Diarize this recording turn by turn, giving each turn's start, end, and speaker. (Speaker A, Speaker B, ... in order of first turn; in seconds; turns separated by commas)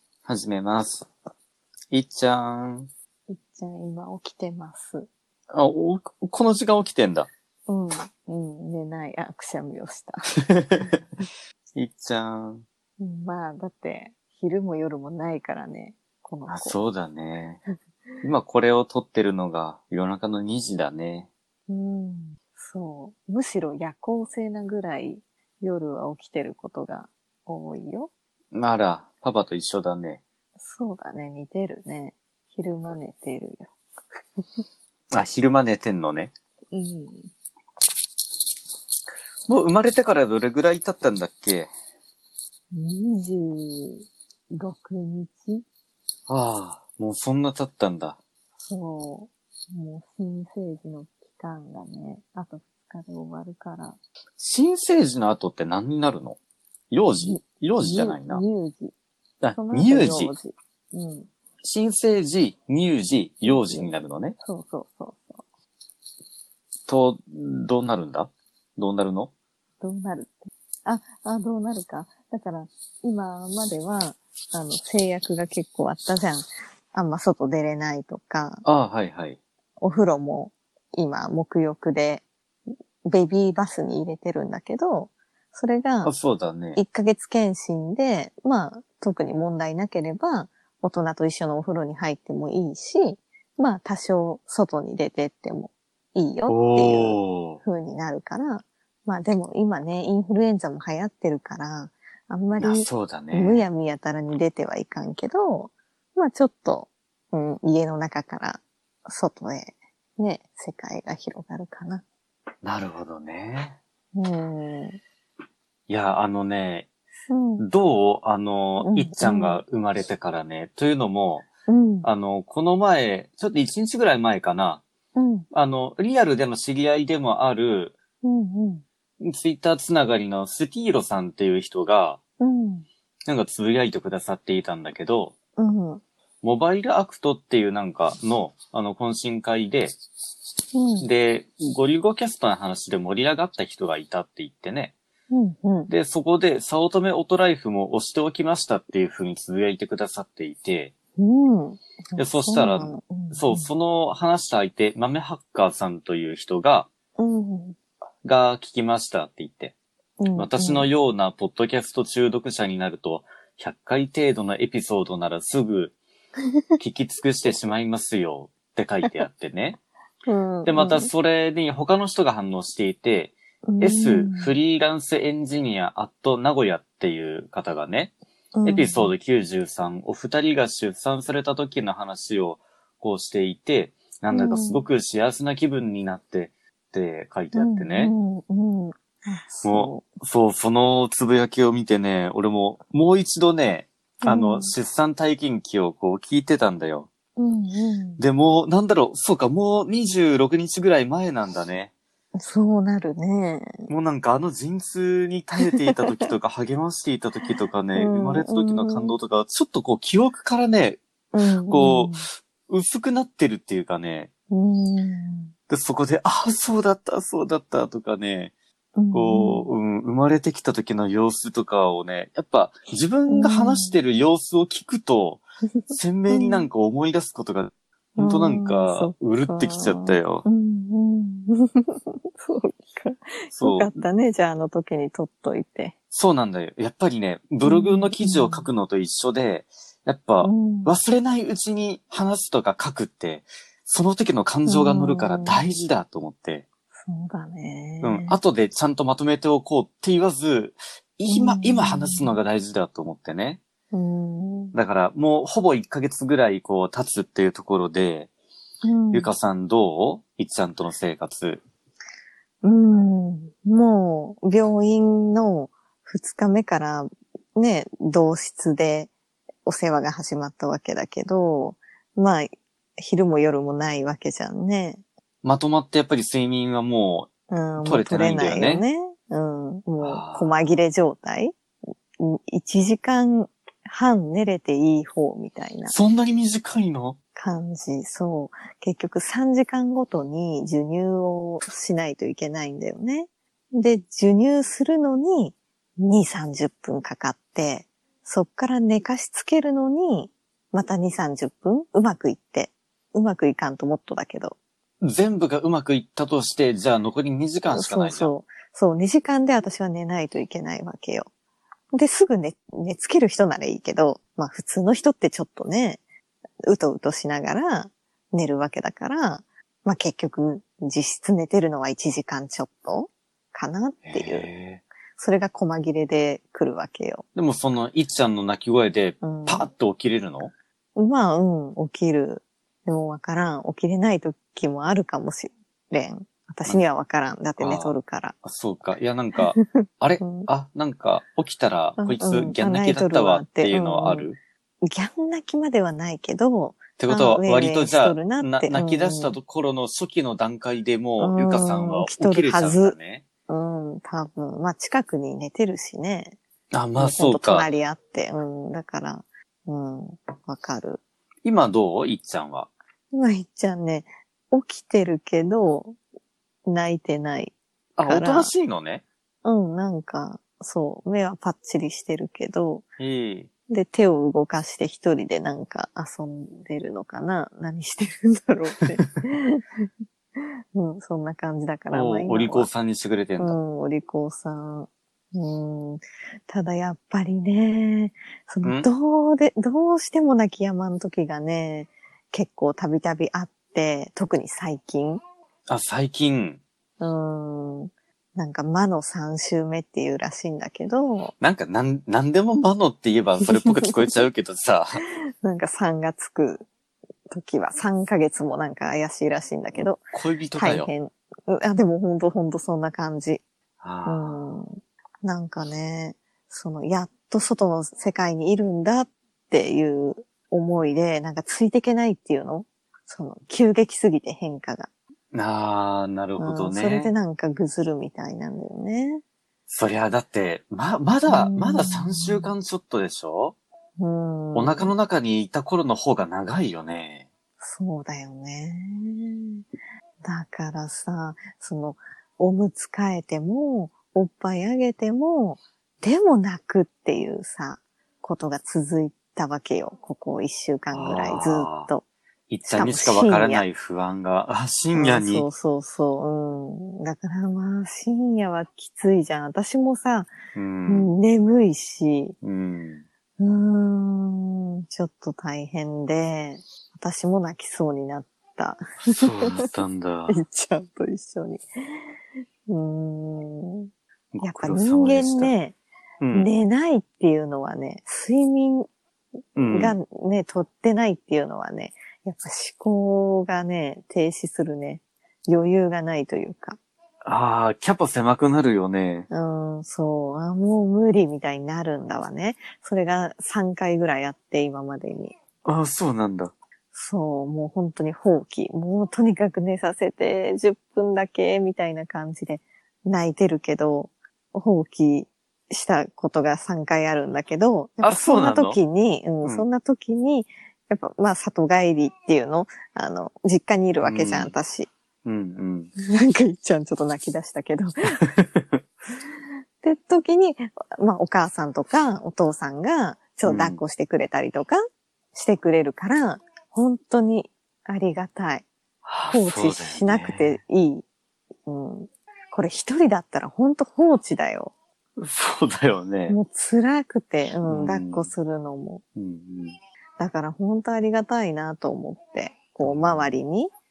Speaker A: 0.2-1.1, Speaker A: 1.9-2.9, Speaker B: 3.3-5.1, Speaker A: 5.5-7.3, Speaker B: 7.7-10.3, Speaker A: 10.5-11.0, Speaker A: 11.7-12.6, Speaker B: 13.0-16.7, Speaker A: 16.5-17.6, Speaker A: 18.2-21.3, Speaker B: 21.7-28.1, Speaker A: 28.5-30.2, Speaker B: 30.6-33.7, Speaker A: 35.1-36.3, Speaker B: 36.7-37.3, Speaker A: 39.5-41.7, Speaker B: 42.7-45.6, Speaker A: 46.3-48.2, Speaker B: 48.6-54.0, Speaker A: 54.4-56.4, Speaker A: 56.9-58.4, Speaker B: 57.2-58.9, Speaker A: 59.4-60.3, Speaker B: 59.5-61.3, Speaker A: 61.6-64.4, Speaker B: 63.4-65.4, Speaker A: 66.9-69.3, Speaker B: 69.8-78.6, Speaker A: 78.6-79.4, Speaker B: 79.8-82.2, Speaker B: 83.0-86.1, Speaker A: 86.0-86.8, Speaker B: 86.7-112.0, Speaker A: 96.5-97.6, Speaker A: 102.6-103.6, Speaker A: 112.6-113.8, Speaker B: 114.1-115.0, Speaker A: 115.9-116.9, Speaker B: 117.3-117.7, Speaker A: 117.6-121.4, Speaker B: 118.8-119.6, Speaker B: 121.7-122.1, Speaker A: 122.0-124.8, Speaker B: 125.1-125.5, Speaker A: 125.5-127.9, Speaker B: 128.2-128.8, Speaker A: 129.2-132.2, Speaker B: 132.4-132.8, Speaker A: 133.3-135.3, Speaker B: 135.6-136.0, Speaker A: 136.4-139.9, Speaker B: 140.7-141.1, Speaker A: 141.0-144.9, Speaker B: 145.3-145.9, Speaker A: 145.9-150.9, Speaker B: 151.2-153.7, Speaker A: 152.2-156.9, Speaker B: 157.2-157.8, Speaker A: 158.2-159.8, Speaker B: 160.2-160.9, Speaker A: 160.3-165.9, Speaker A: 166.8-169.8, Speaker B: 170.3-171.1, Speaker A: 170.6-188.1, Speaker B: 173.7-174.5, Speaker B: 178.5-179.1, Speaker B: 184.3-184.8, Speaker B: 187.5-190.1, Speaker A: 189.6-197.1, Speaker B: 194.2-194.7, Speaker B: 197.4-198.2, Speaker A: 198.2-201.9, Speaker B: 202.4-203.9, Speaker A: 203.9-211.0, Speaker B: 207.9-209.2, Speaker B: 211.3-212.2, Speaker A: 211.7-214.3, Speaker B: 214.5-215.5, Speaker A: 215.7-218.5, Speaker B: 218.9-219.7, Speaker A: 219.1-230.4, Speaker B: 223.3-224.0, Speaker B: 225.8-226.7, Speaker B: 228.2-235.9, Speaker A: 233.5-233.9, Speaker A: 236.1-246.6, Speaker B: 237.6-238.7, Speaker B: 240.4-240.9, Speaker B: 244.7-245.6, Speaker B: 247.0-248.4, Speaker A: 248.0-253.6, Speaker B: 251.3-252.3, Speaker B: 253.9-254.8, Speaker A: 254.7-258.3, Speaker B: 258.8-259.3, Speaker A: 259.1-261.6, Speaker B: 262.6-269.1, Speaker B: 269.6-275.0, Speaker A: 275.4-278.8, Speaker B: 277.5-281.6, Speaker A: 280.0-280.6, Speaker B: 282.2-285.9, Speaker A: 285.9-287.2, Speaker B: 287.4-304.6, Speaker A: 305.0-308.3, Speaker B: 307.7-311.3, Speaker B: 311.9-316.0, Speaker B: 316.7-324.5, Speaker A: 324.0-324.8, Speaker B: 325.1-327.2, Speaker A: 327.3-330.5, Speaker B: 329.2-329.7, Speaker B: 330.9-338.4, Speaker A: 337.6-344.4, Speaker B: 339.7-340.5, Speaker B: 342.0-344.3, Speaker B: 344.8-349.4, Speaker A: 347.0-353.2, Speaker B: 351.2-352.9, Speaker B: 353.5-356.4, Speaker A: 356.7-357.7, Speaker B: 356.9-361.0, Speaker A: 361.4-362.7, Speaker B: 363.1-366.0, Speaker B: 366.6-368.5, Speaker A: 368.0-369.0, Speaker B: 369.4-372.9, Speaker A: 373.0-373.5, Speaker B: 373.7-379.9, Speaker B: 380.7-382.7, Speaker A: 381.9-383.6, Speaker B: 383.4-395.2, Speaker A: 388.6-388.9, Speaker A: 395.7-396.6, Speaker B: 397.0-401.3, Speaker A: 401.4-405.0, Speaker B: 405.4-406.7, Speaker B: 407.3-410.0, Speaker A: 410.1-410.9, Speaker B: 410.5-413.4, Speaker A: 413.8-414.4, Speaker B: 414.1-424.9, Speaker A: 425.3-427.1, Speaker B: 426.4-429.2, Speaker A: 429.7-433.5, Speaker B: 431.3-432.5, Speaker B: 434.0-434.9, Speaker A: 434.5-437.3, Speaker B: 437.6-439.6, Speaker B: 440.2-452.0, Speaker A: 450.9-451.9, Speaker A: 452.5-455.5, Speaker B: 452.6-453.7, Speaker B: 454.9-460.3, Speaker A: 460.5-461.1, Speaker B: 460.9-462.3, Speaker A: 462.4-463.0, Speaker B: 463.4-469.7, Speaker A: 469.1-470.4, Speaker B: 470.3-471.6, Speaker B: 472.7-473.9, Speaker A: 474.3-475.5, Speaker B: 474.4-475.8, Speaker A: 476.2-476.5, Speaker B: 476.3-478.9, Speaker A: 479.6-480.0, Speaker B: 479.7-486.8, Speaker A: 487.2-489.3, Speaker B: 489.3-495.3, Speaker A: 495.6-496.5, Speaker B: 496.9-514.9, Speaker A: 508.0-508.8, Speaker A: 514.0-514.5, Speaker A: 515.2-515.9, Speaker B: 516.0-518.2, Speaker A: 518.2-518.8, Speaker B: 519.8-524.8, Speaker A: 523.4-523.8, Speaker B: 525.3-528.7, Speaker A: 529.0-530.6, Speaker B: 529.3-531.0, Speaker B: 531.6-534.7, Speaker A: 535.2-536.4, Speaker B: 536.3-539.0, Speaker A: 537.6-538.3, Speaker A: 539.1-539.8, Speaker B: 540.2-543.7, Speaker A: 542.8-543.3